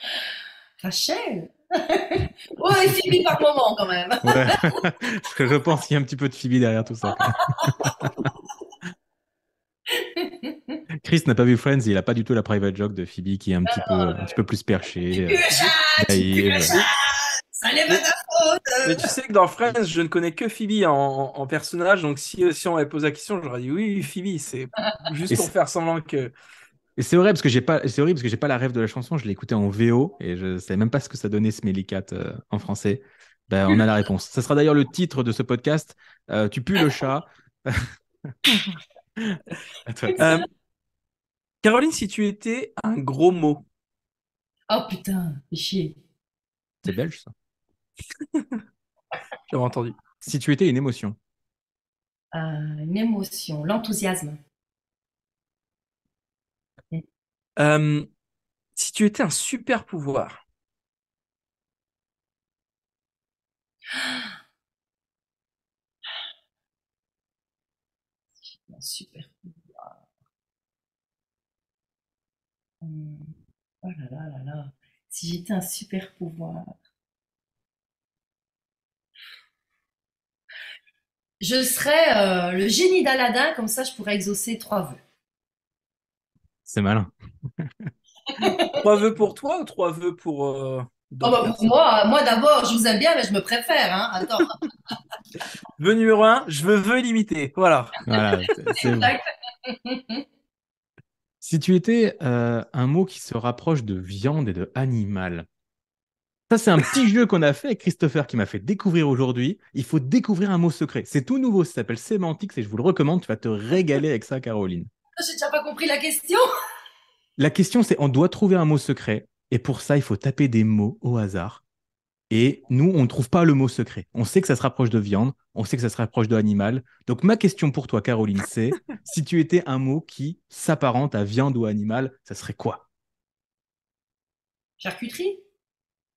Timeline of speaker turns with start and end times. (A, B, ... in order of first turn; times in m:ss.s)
0:00.8-0:04.8 A
0:04.2-0:08.3 B
0:07.3-0:08.1 A
0:09.9-0:10.8 A
0:11.0-0:15.4 B
0:13.7-0:14.3 A
0:15.1-0:19.1 A
0:16.0-0:16.8 B
0:18.8-0:26.3 C
0:27.0-0:37.9 B
0:39.2-0:40.2 B
0:40.2-0:40.5 C
0:41.6-0:43.6 C
0:44.7-0:46.0 A
0:46.8-0:47.3 B
0:48.3-0:48.6 C
0:49.5-0:49.9 C
0:50.2-0:51.2 B
0:52.3-0:54.4 A
0:57.6-0:58.1 C
0:58.8-1:00.4 C
1:08.4-1:09.9 A
1:12.8-1:13.3 A
1:13.8-1:16.7 A
1:21.4-1:25.0 A
1:26.6-1:27.9 B
1:28.3-1:28.8 A
1:28.7-1:31.8 C
1:31.2-1:34.5 A
1:35.8-1:38.0 C
1:38.0-1:39.2 B
1:38.7-1:40.2 A
1:41.4-1:45.5 B
1:46.5-1:54.9 B
1:55.2-1:56.4 A
1:57.4-2:01.6 B
2:02.3-2:12.8 B
2:14.8-2:15.4 A